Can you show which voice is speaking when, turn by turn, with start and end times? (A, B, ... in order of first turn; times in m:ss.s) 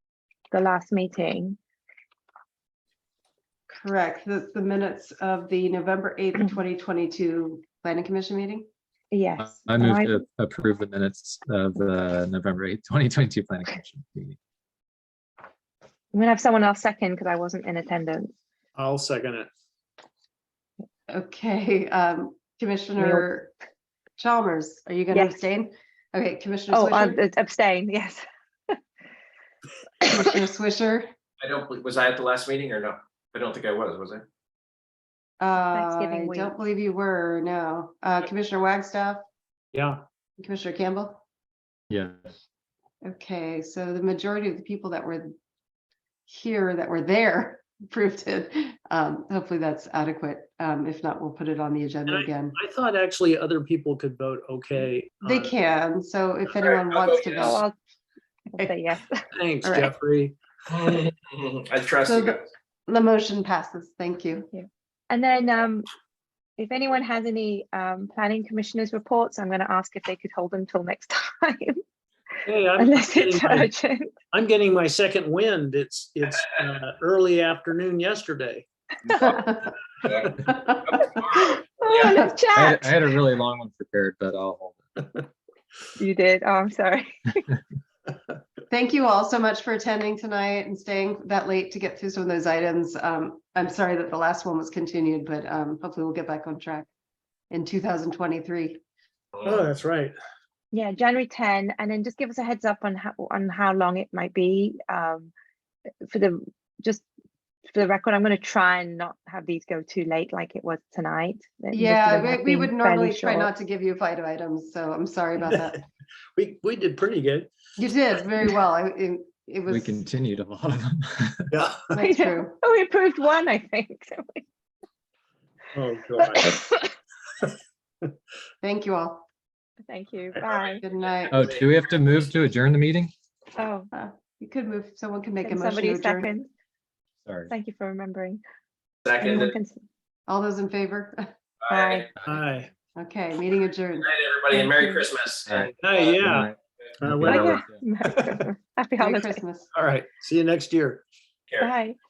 0:00.5-0:01.6 A
0:03.7-0:08.7 B
0:09.1-0:10.2 A
0:09.4-0:14.4 C
0:16.1-0:18.3 A
0:18.7-0:19.5 D
0:21.1-0:23.5 B
0:23.0-0:23.3 A
0:24.2-0:27.2 B
0:26.7-0:28.8 A
0:30.0-0:31.1 B
0:31.4-0:34.2 E
0:35.4-0:39.2 B
0:35.6-0:36.5 A
0:39.7-0:40.0 D
0:40.4-0:41.2 B
0:41.9-0:42.3 C
0:43.0-0:45.3 B
0:46.3-0:52.5 B
0:52.1-0:55.6 D
0:55.2-0:57.6 B
0:56.5-0:57.6 E
0:57.3-0:57.7 A
0:58.5-0:59.2 A
0:59.3-1:00.4 D
0:59.6-0:59.9 B
1:00.7-1:02.4 E
1:02.0-1:04.5 B
1:04.5-1:05.9 A
1:06.6-1:11.8 A
1:12.4-1:13.7 D
1:12.8-1:14.1 A
1:14.3-1:18.6 D
1:19.1-1:19.7 B
1:20.0-1:22.0 E
1:20.3-1:22.3 B
1:21.3-1:22.9 A
1:22.5-1:25.0 C
1:26.0-1:27.4 A
1:28.7-1:36.9 B
1:37.5-1:38.8 B
1:39.4-1:40.2 D
1:40.7-1:45.3 A
1:46.0-1:47.0 A
1:47.7-1:53.5 A
1:51.7-1:55.8 B
1:55.4-1:55.8 D
1:56.3-1:57.5 D
1:57.8-2:00.0 B
1:59.7-2:01.5 C
2:01.5-2:01.8 D
2:01.9-2:02.6 B
2:02.0-2:04.4 A
2:05.7-2:06.6 D
2:06.2-2:06.9 A
2:08.6-2:09.3 B
2:09.9-2:10.8 A
2:10.5-2:12.2 E
2:10.8-2:11.5 B
2:11.3-2:13.1 C
2:13.6-2:13.9 A
2:13.9-2:16.3 B
2:15.4-2:16.5 A
2:17.2-2:17.5 C
2:17.5-2:18.4 A
2:19.0-2:19.5 E
2:19.2-2:19.8 A
2:20.3-2:21.3 B
2:21.6-2:22.1 E
2:21.7-2:22.1 A
2:22.2-2:22.6 C
2:22.2-2:22.7 D
2:22.9-2:24.1 B
2:24.0-2:26.2 E
2:24.5-2:25.0 A
2:25.4-2:27.8 C
2:25.8-2:26.5 D
2:27.0-2:27.6 D
2:27.2-2:29.4 A
2:29.0-2:29.7 B
2:29.7-2:31.0 D
2:31.6-2:32.0 A